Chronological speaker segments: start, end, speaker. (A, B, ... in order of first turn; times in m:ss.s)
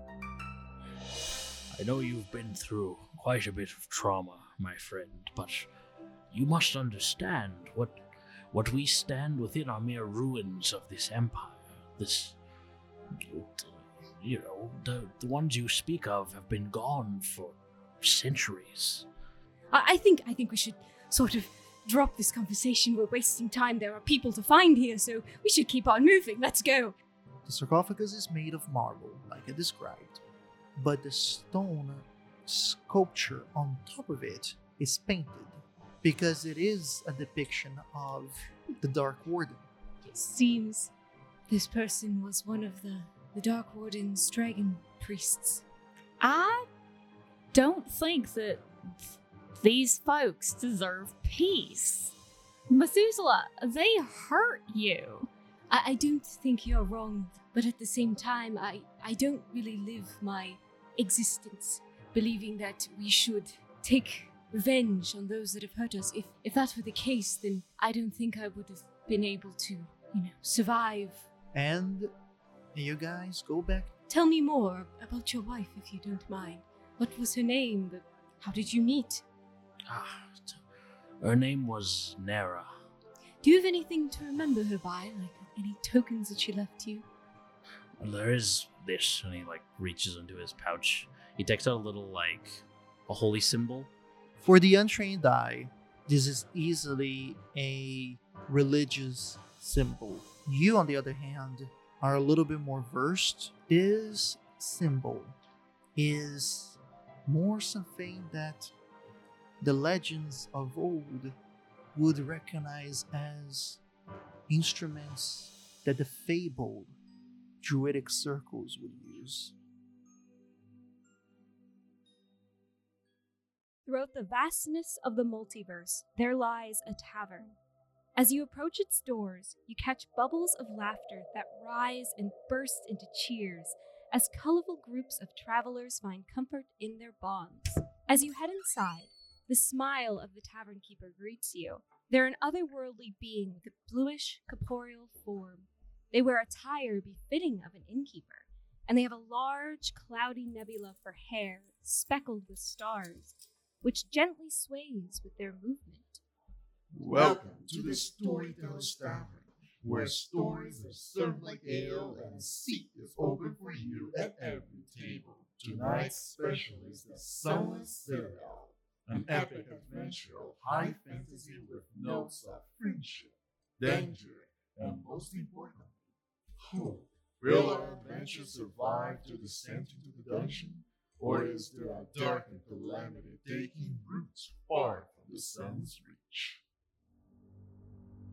0:01.7-0:05.7 A
0:06.3-0:08.0 A
0:08.5-0:12.4 A
0:13.2-0:19.0 A
0:19.7-0:26.9 B
0:27.4-0:30.2 C
0:30.8-0:39.7 C
0:40.0-0:40.9 B
0:41.5-0:45.6 B
0:46.2-0:46.7 D
0:47.5-0:48.6 D
0:49.6-0:52.1 D
0:52.7-0:55.3 D
0:55.7-1:11.3 B
1:11.5-1:12.1 C
1:12.7-1:13.9 C
1:14.1-1:19.2 B
1:19.9-1:20.6 A
1:21.2-1:22.7 A
1:23.4-1:27.0 B
1:28.0-1:33.9 A
1:34.4-1:45.4 C
1:46.0-1:48.7 C
1:49.6-1:51.4 C
1:51.9-1:53.8 C
1:54.5-1:56.9 C
1:57.6-1:59.5 C
2:03.9-2:07.6 B
2:08.2-2:36.2 B
2:36.9-2:55.9 E
2:56.6-3:06.6 E